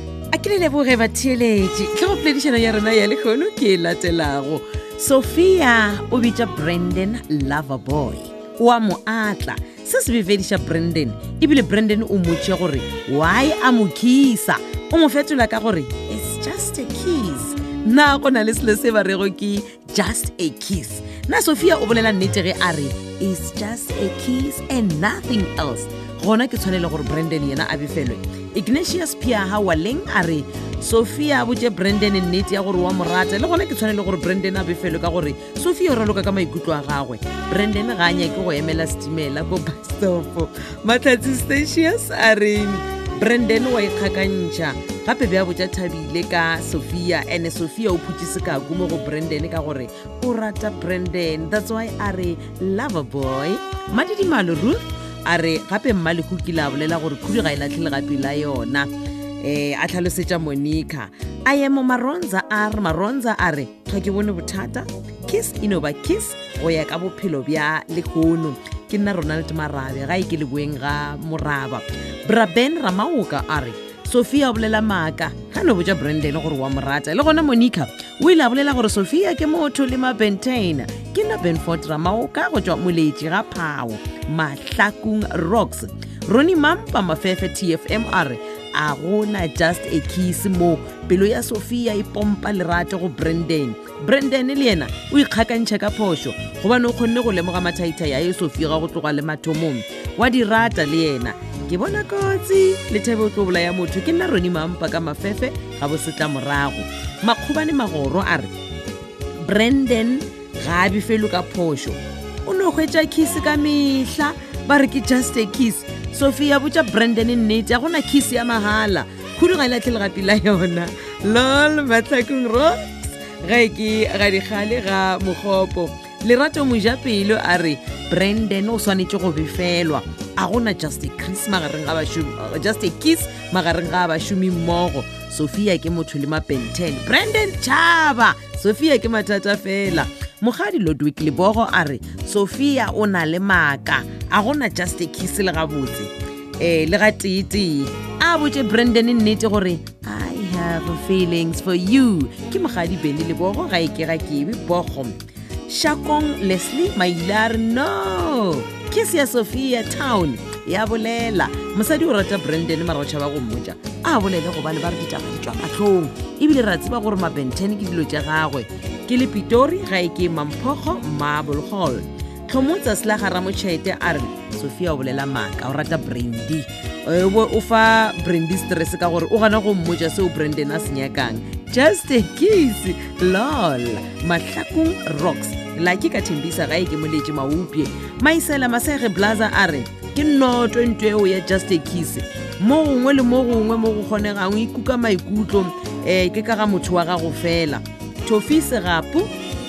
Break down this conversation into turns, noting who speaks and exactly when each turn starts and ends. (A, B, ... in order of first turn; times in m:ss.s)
0:00.3-1:48.5 A
1:49.4-2:35.2 A
2:35.7-3:19.3 A